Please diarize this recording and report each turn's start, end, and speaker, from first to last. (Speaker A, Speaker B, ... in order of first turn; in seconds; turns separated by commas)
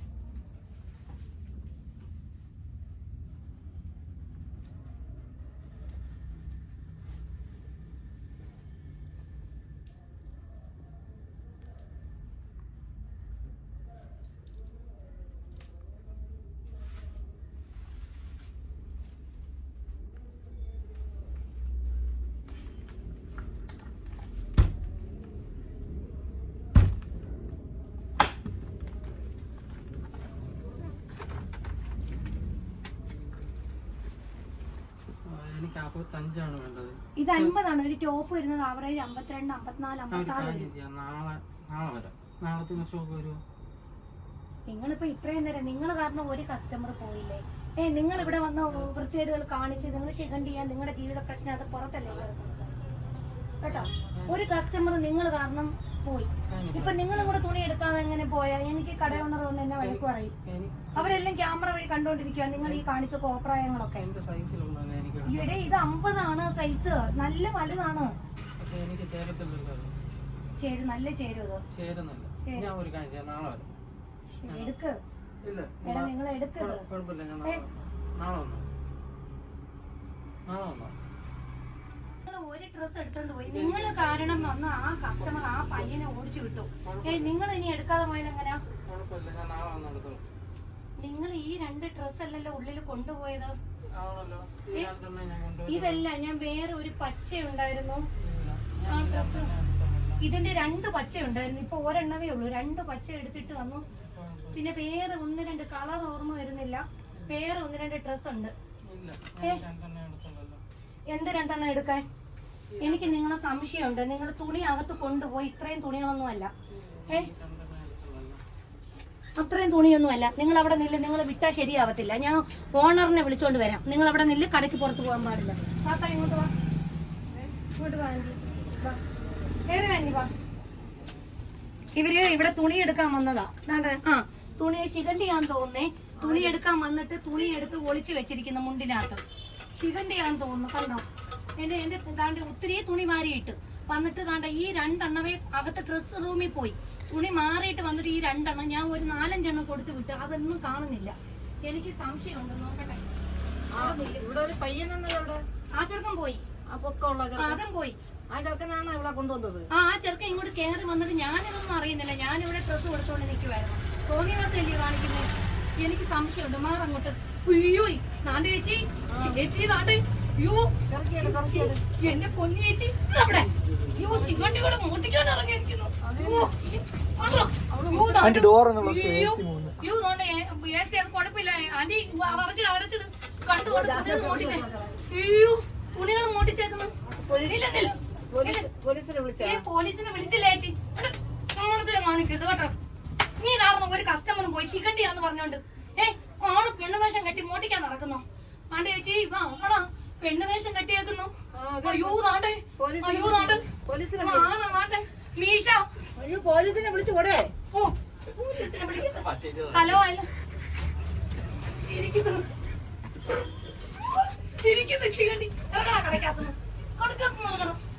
Speaker A: 35.3-37.5, Speaker B: 37.2-40.7, Speaker A: 40.1-43.4, Speaker B: 44.7-52.7, Speaker A: 48.1-48.9, Speaker B: 53.6-60.4, Speaker A: 53.7-54.5, Speaker A: 56.5-57.4, Speaker A: 59.8-61.2, Speaker B: 61.0-64.1, Speaker A: 64.0-65.6, Speaker B: 65.2-68.1, Speaker A: 68.6-69.9, Speaker B: 70.6-71.6, Speaker A: 71.7-73.7, Speaker B: 72.4-72.7, Speaker B: 74.3-75.0, Speaker A: 74.5-74.7, Speaker A: 75.4-78.7, Speaker B: 75.8-76.9, Speaker A: 80.5-80.9, Speaker B: 82.2-88.6, Speaker A: 83.5-84.5, Speaker A: 85.2-85.8, Speaker A: 86.8-87.3, Speaker A: 88.8-90.2, Speaker B: 91.0-93.5, Speaker A: 93.9-96.1, Speaker B: 95.7-98.1, Speaker A: 98.2-100.2, Speaker B: 98.9-99.5, Speaker B: 100.2-103.8, Speaker A: 103.9-104.7, Speaker B: 104.5-108.5, Speaker A: 108.9-110.6, Speaker B: 111.1-112.0, Speaker A: 112.7-113.2, Speaker B: 112.8-116.5, Speaker A: 116.7-118.4, Speaker B: 119.4-126.5, Speaker B: 127.7-129.0, Speaker B: 129.7-130.3, Speaker B: 132.0-141.0, Speaker C: 136.2-136.6, Speaker B: 141.6-153.0, Speaker C: 153.7-155.4, Speaker B: 153.8-154.2, Speaker B: 155.7-156.4, Speaker C: 156.7-157.6, Speaker B: 157.4-158.0, Speaker C: 158.3-159.7, Speaker B: 159.7-165.3, Speaker B: 165.8-188.7, Speaker C: 169.1-169.4, Speaker C: 170.9-171.8, Speaker C: 173.9-174.6, Speaker C: 176.0-176.5, Speaker C: 177.6-178.4, Speaker C: 183.6-185.0, Speaker C: 187.2-187.6, Speaker C: 188.3-189.6, Speaker B: 189.4-192.8, Speaker B: 193.4-206.0, Speaker C: 201.5-202.2, Speaker C: 202.8-204.5, Speaker C: 206.2-207.5, Speaker B: 207.7-210.3, Speaker B: 211.7-212.5, Speaker B: 214.4-217.8